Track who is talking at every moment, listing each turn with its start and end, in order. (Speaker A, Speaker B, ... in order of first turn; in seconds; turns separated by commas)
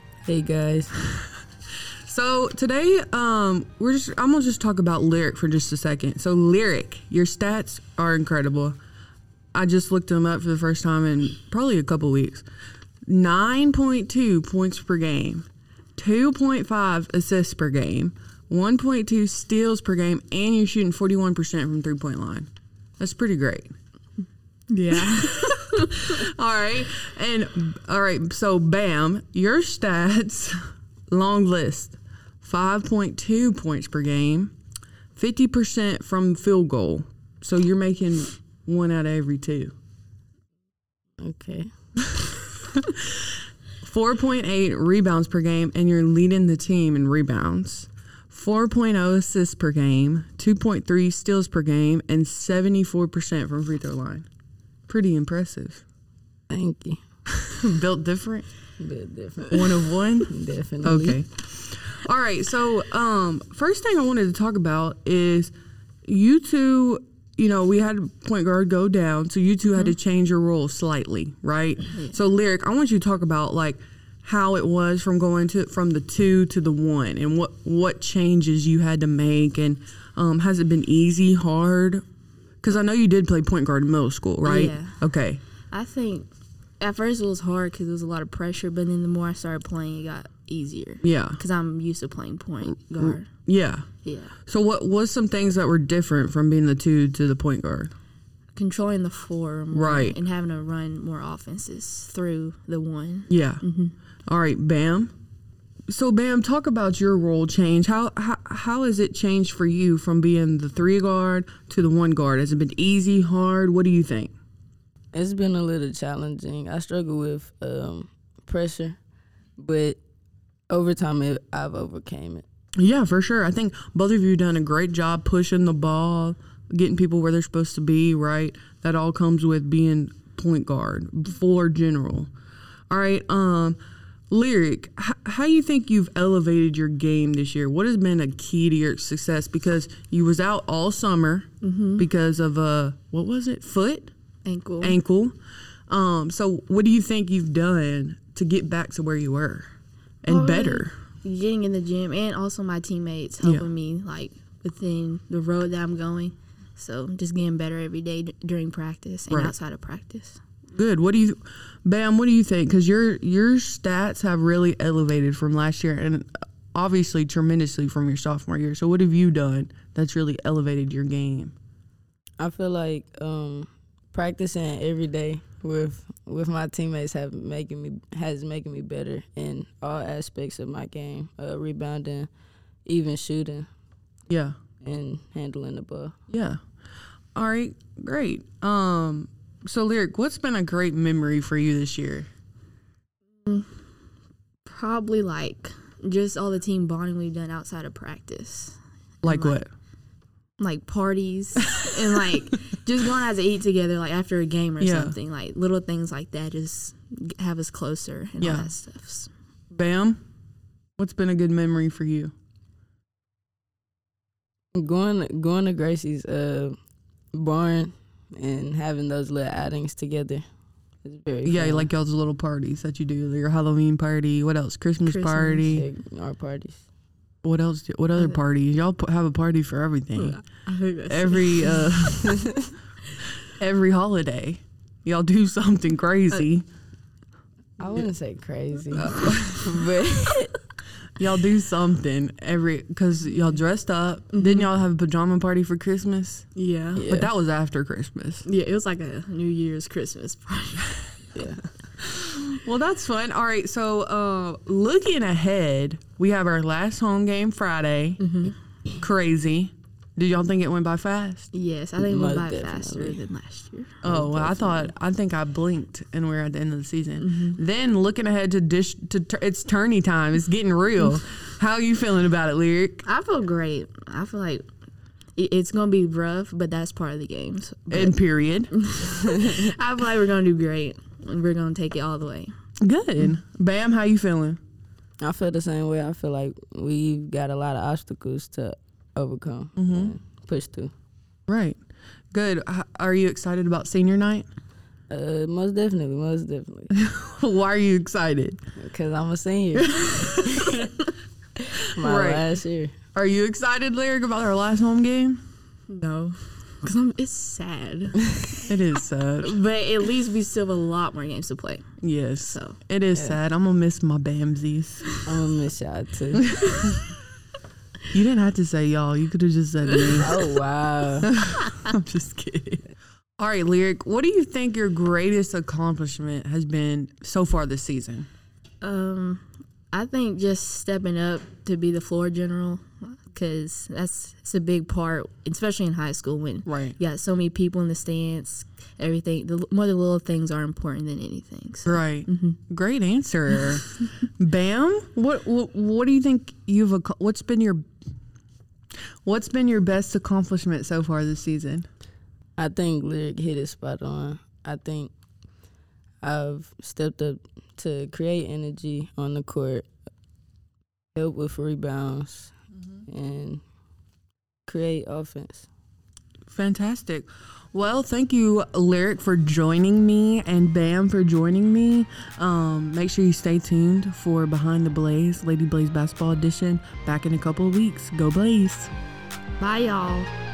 Speaker A: 0.2-0.9, Speaker B: 2.0-8.8, Speaker B: 9.5-12.4, Speaker B: 13.1-23.7, Speaker C: 24.7-25.8, Speaker B: 25.1-30.6, Speaker B: 31.1-34.5, Speaker B: 35.1-39.7, Speaker A: 41.2-41.7, Speaker B: 42.7-43.2, Speaker B: 43.8-54.3, Speaker B: 54.9-55.8, Speaker A: 56.5-57.0, Speaker B: 57.3-58.5, Speaker A: 58.8-61.2, Speaker B: 59.5-65.5, Speaker B: 66.0-82.0, Speaker B: 82.6-85.4, Speaker C: 84.4-85.0, Speaker C: 85.7-86.3, Speaker C: 86.8-93.3, Speaker B: 91.0-91.4, Speaker B: 93.0-93.8, Speaker C: 94.0-94.3, Speaker B: 94.5-97.9, Speaker C: 98.5-103.9, Speaker B: 99.7-100.2, Speaker B: 103.3-103.6, Speaker B: 104.3-105.1, Speaker B: 105.9-114.3, Speaker A: 115.1-119.0, Speaker A: 119.6-120.0, Speaker A: 120.7-122.4, Speaker B: 122.8-132.3, Speaker B: 132.9-133.8, Speaker B: 134.3-141.5, Speaker C: 141.6-142.1, Speaker B: 142.0-144.1, Speaker C: 144.4-145.0, Speaker B: 144.8-145.3, Speaker B: 145.9-150.9, Speaker C: 150.2-160.4, Speaker B: 153.4-153.7, Speaker B: 159.3-159.5, Speaker B: 160.7-171.5, Speaker A: 172.4-182.3, Speaker A: 182.8-183.7, Speaker B: 184.3-184.5, Speaker A: 184.8-186.1, Speaker B: 186.3-186.6, Speaker B: 187.3-192.3, Speaker C: 193.4-193.7, Speaker C: 194.6-199.6, Speaker B: 199.2-199.7, Speaker C: 200.6-209.3, Speaker B: 204.8-205.1, Speaker B: 208.4-208.7, Speaker B: 209.7-210.2, Speaker B: 211.0-212.3, Speaker A: 214.7-216.8, Speaker A: 217.3-220.4, Speaker A: 221.0-221.9, Speaker B: 221.4-225.8, Speaker C: 225.0-225.8, Speaker A: 225.7-226.8, Speaker B: 227.4-230.4, Speaker C: 230.2-232.2, Speaker B: 231.1-232.4, Speaker B: 233.6-236.6, Speaker A: 237.8-240.5, Speaker B: 239.0-239.3, Speaker C: 239.1-239.4, Speaker B: 241.2-246.5, Speaker C: 244.3-244.7, Speaker C: 246.6-247.1, Speaker A: 246.9-247.3, Speaker B: 247.1-248.4, Speaker C: 248.4-251.0, Speaker B: 252.0-258.2, Speaker C: 258.2-258.5, Speaker B: 259.0-261.5, Speaker C: 261.5-264.0, Speaker A: 262.0-263.2, Speaker B: 264.0-273.0, Speaker A: 264.0-264.7, Speaker C: 267.2-267.6, Speaker C: 273.0-274.6, Speaker C: 275.4-278.2, Speaker B: 277.9-278.7, Speaker C: 278.7-282.5, Speaker B: 282.8-284.6, Speaker A: 285.2-290.9, Speaker B: 289.8-290.1, Speaker B: 291.5-291.8, Speaker B: 292.3-294.4, Speaker A: 295.1-296.9, Speaker B: 296.9-298.6, Speaker A: 298.8-300.0, Speaker B: 299.7-300.9, Speaker B: 301.7-302.4, Speaker A: 301.9-302.9, Speaker B: 303.1-305.4, Speaker C: 305.9-308.6, Speaker B: 308.6-309.6, Speaker C: 309.4-311.9, Speaker B: 312.0-315.1, Speaker C: 312.4-312.8, Speaker A: 315.2-316.5, Speaker B: 316.5-316.8, Speaker C: 316.6-316.9, Speaker B: 318.1-320.3, Speaker A: 320.2-321.3, Speaker B: 321.2-322.8, Speaker B: 323.4-328.3, Speaker C: 328.8-342.6, Speaker B: 336.6-336.9, Speaker B: 341.9-347.8, Speaker B: 349.2-351.9, Speaker A: 352.6-355.1, Speaker A: 356.2-359.9, Speaker A: 361.1-362.5, Speaker A: 363.1-363.6, Speaker A: 364.7-365.7, Speaker B: 366.5-378.9, Speaker C: 379.6-380.3